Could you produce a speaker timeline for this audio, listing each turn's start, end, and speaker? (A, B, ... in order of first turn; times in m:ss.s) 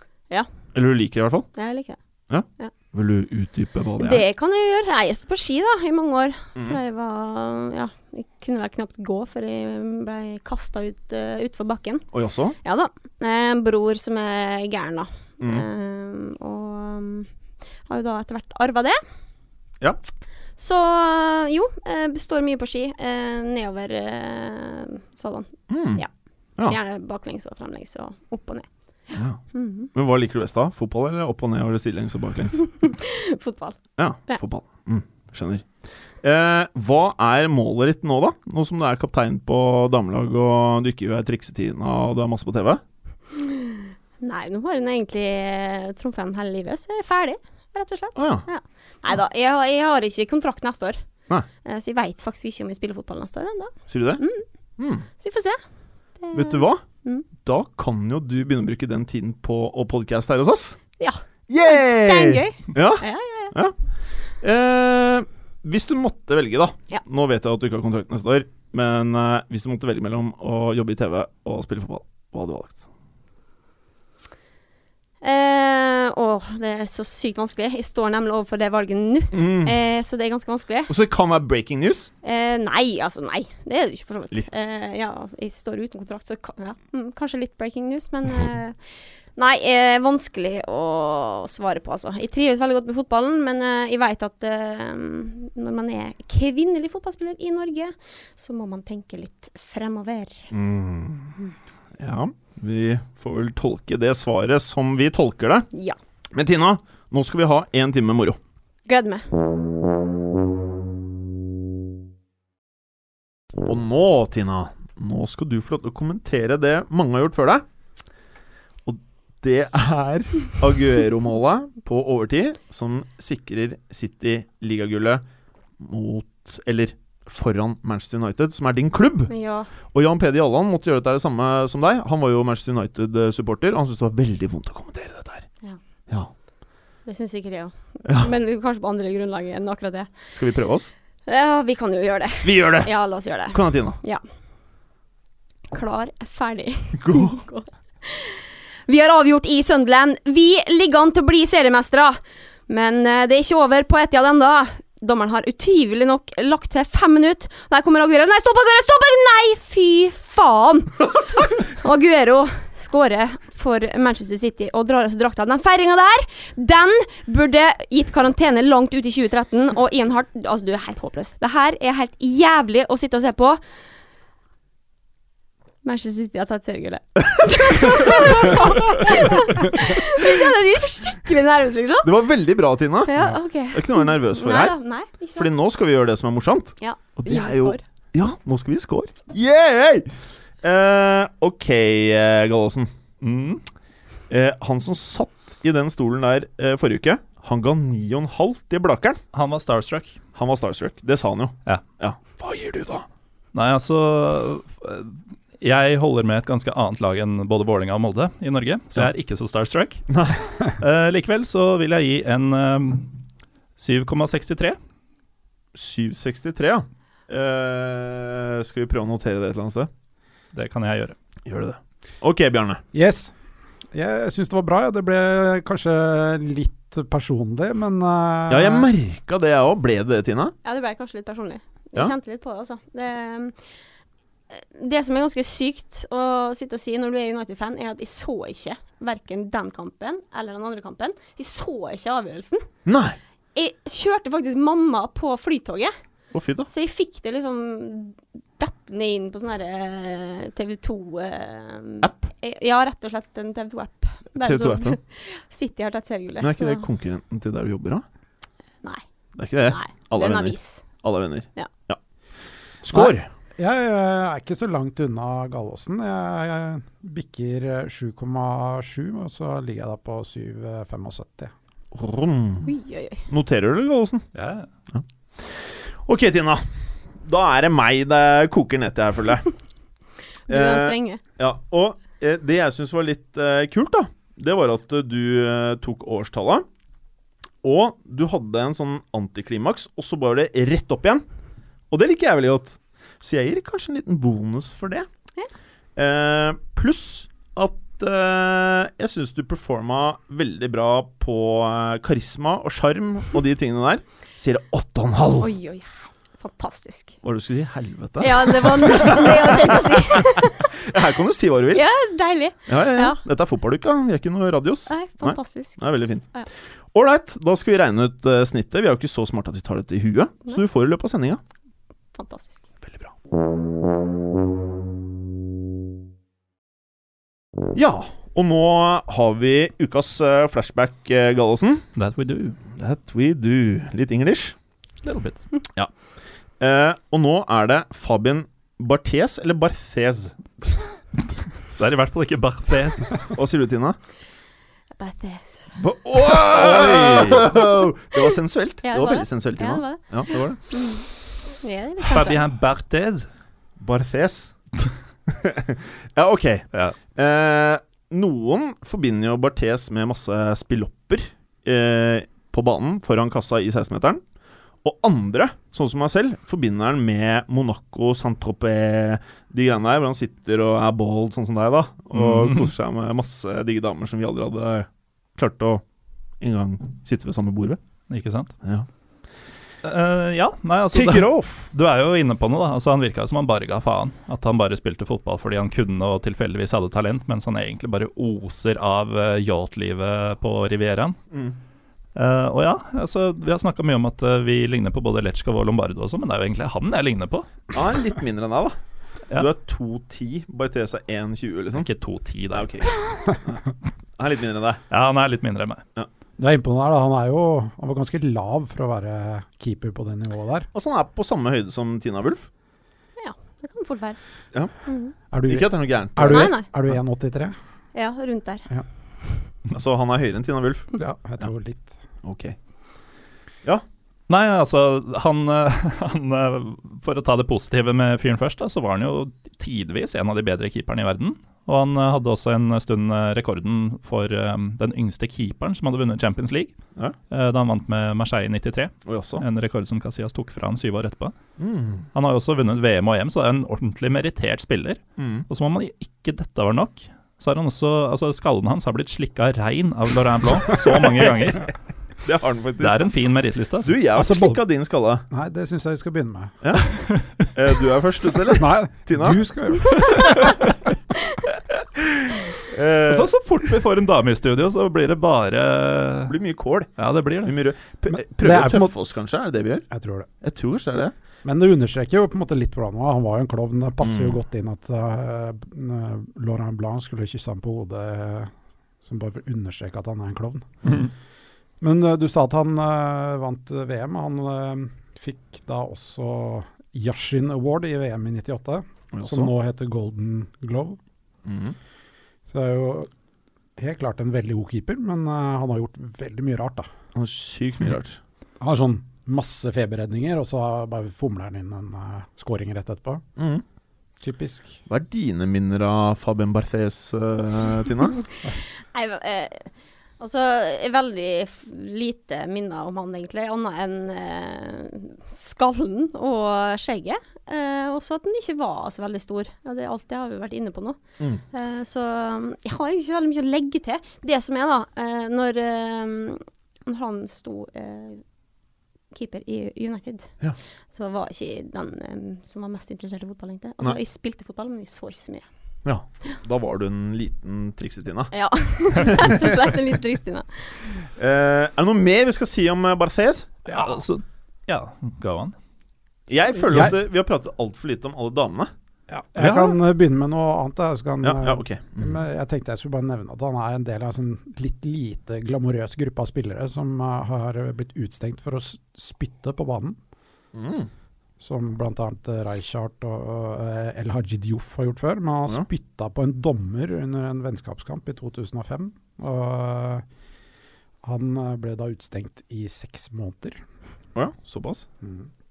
0:00.7-0:01.5 A
0:01.6-0:02.0 B
0:02.3-0:04.2 A
0:04.0-0:12.1 B
0:12.1-0:12.5 A
0:12.6-0:17.3 B
0:17.9-0:19.0 B
0:20.6-0:26.1 B
0:25.7-0:26.0 A
0:26.6-0:29.9 B
0:29.1-0:29.4 A
0:29.9-0:32.8 A
0:32.7-0:33.8 B
0:34.0-0:35.7 A
0:36.2-0:42.8 A
0:43.3-0:51.0 B
0:48.2-0:48.4 A
0:51.6-0:54.4 B
0:53.9-0:54.2 A
0:54.8-0:55.0 A
0:55.2-0:55.6 B
0:56.2-0:57.2 B
0:56.3-0:56.8 A
0:57.4-1:00.8 A
1:01.0-1:03.5 B
1:01.5-1:03.7 A
1:04.4-1:12.8 A
1:15.2-1:20.9 B
1:19.3-1:19.8 A
1:20.9-1:22.1 A
1:22.2-1:28.8 B
1:29.4-1:40.5 B
1:40.5-1:41.4 A
1:42.0-1:45.7 A
1:45.7-1:46.0 B
1:46.3-1:48.4 A
1:48.8-1:49.2 B
1:53.6-1:57.6 A
1:58.8-2:05.2 A
2:05.8-2:09.3 A
2:09.3-2:09.7 B
2:09.9-2:15.4 A
2:17.0-2:20.1 B
2:18.0-2:18.3 A
2:20.3-2:20.9 A
2:21.3-2:24.2 B
2:22.4-2:22.9 A
2:23.5-2:24.0 A
2:25.7-2:53.6 B
2:27.0-2:27.4 A
2:55.8-3:02.1 B
2:57.8-2:58.6 A
3:02.0-3:04.7 A
3:03.0-3:05.5 B
3:05.4-3:10.1 A
3:06.8-3:07.8 B
3:10.6-3:12.9 A
3:13.2-3:13.6 C
3:14.3-3:19.2 A
3:19.3-3:20.2 C
3:20.3-3:23.0 A
3:23.5-3:30.1 C
3:30.1-3:30.4 A
3:30.6-3:33.2 C
3:33.8-3:34.8 C
3:35.7-3:39.9 A
3:40.5-3:41.1 C
3:41.4-3:42.8 A
3:42.9-3:43.3 D
3:43.9-3:48.9 D
3:48.5-3:50.5 A
3:50.6-3:53.6 B
3:54.5-4:02.6 B
4:02.8-4:03.2 A
4:03.5-4:05.9 B
4:06.3-4:06.7 A
4:06.7-4:16.8 B
4:14.4-4:15.0 A
4:16.4-4:18.0 A
4:19.4-4:22.0 A
4:19.6-4:20.9 B
4:22.8-4:23.3 A
4:22.9-4:31.5 D
4:31.9-4:32.7 A
4:32.6-4:33.3 B
4:33.3-4:34.3 A
4:34.3-4:34.7 C
4:34.9-4:36.6 A
4:37.2-4:39.4 A
4:40.5-4:41.2 B
4:40.5-4:46.6 A
4:47.6-4:51.2 A
4:51.9-4:55.1 A
4:56.0-5:05.5 A
5:05.4-5:07.2 B
5:07.2-5:11.8 A
5:08.2-5:10.7 B
5:11.7-5:13.2 B
5:12.7-5:16.3 A
5:14.9-5:16.5 B
5:16.9-5:21.4 A
5:22.1-5:22.6 B
5:22.8-5:23.1 A
5:27.7-5:31.8 A
5:32.0-5:32.6 C
5:32.8-5:34.6 A
5:35.0-5:35.5 C
5:36.6-5:40.3 A
5:41.7-5:43.3 C
5:43.3-5:44.0 A
5:45.0-5:45.7 B
5:45.8-5:50.6 A
5:46.6-5:47.3 C
5:48.8-5:51.0 B
5:51.6-5:52.4 B
5:52.0-5:53.3 C
5:53.8-5:54.5 A
5:55.3-6:04.2 A
6:04.8-6:15.8 A
6:12.1-6:12.7 C
6:16.4-6:17.8 A
6:18.1-6:18.5 C
6:19.8-6:31.2 C
6:20.9-6:21.7 A
6:32.1-6:37.5 C
6:37.7-6:38.8 A
6:39.3-6:41.9 A
6:41.7-6:42.9 C
6:42.5-6:44.8 A
6:44.9-6:45.8 C
6:46.4-6:50.7 D
6:50.7-6:52.5 A
6:53.2-6:54.2 B
6:54.8-6:55.1 B
6:55.3-6:57.5 D
6:55.5-6:56.5 A
6:56.2-6:56.7 B
6:57.9-6:58.6 B
6:59.7-7:00.9 A
7:00.9-7:01.9 D
7:02.2-7:02.6 A
7:04.3-7:16.7 C
7:17.3-7:21.3 C
7:19.0-7:19.4 A
7:21.6-7:22.0 A
7:22.1-7:31.7 C
7:25.2-7:25.4 A
7:32.2-7:33.1 A
7:32.8-7:33.9 C
7:33.8-7:35.2 A
7:34.1-7:34.6 D
7:35.3-7:36.6 D
7:36.6-7:40.6 A
7:37.0-7:37.4 C
7:38.5-7:40.6 D
7:42.4-7:43.3 A
7:43.1-7:46.4 C
7:46.3-7:46.9 A
7:47.0-7:47.5 C
7:47.4-7:49.8 A
7:48.1-7:48.9 D
7:49.9-7:50.3 D
7:50.4-7:51.1 A
7:51.4-8:00.9 D
7:54.0-7:54.3 A
8:01.8-8:11.0 D
8:09.1-8:09.5 A
8:11.4-8:11.8 A
8:12.5-8:13.1 D
8:13.8-8:16.9 D
8:17.1-8:18.2 A
8:18.6-8:23.2 D
8:23.4-8:23.6 A
8:24.2-8:24.8 D
8:24.9-8:28.2 A
8:28.8-8:41.0 B
8:41.5-8:48.2 B
8:49.1-8:50.3 B
8:50.9-8:55.4 B
8:55.8-8:58.3 A
8:58.3-9:00.7 B
8:58.9-8:59.7 A
9:01.2-9:03.5 A
9:03.7-9:03.9 D
9:03.7-9:05.5 C
9:06.3-9:08.7 A
9:06.6-9:07.0 D
9:09.1-9:20.0 D
9:09.4-9:09.7 A
9:11.2-9:12.2 A
9:20.5-9:20.9 A
9:21.4-9:30.0 D
9:31.0-9:33.6 D
9:34.1-9:34.8 A
9:35.0-9:35.3 D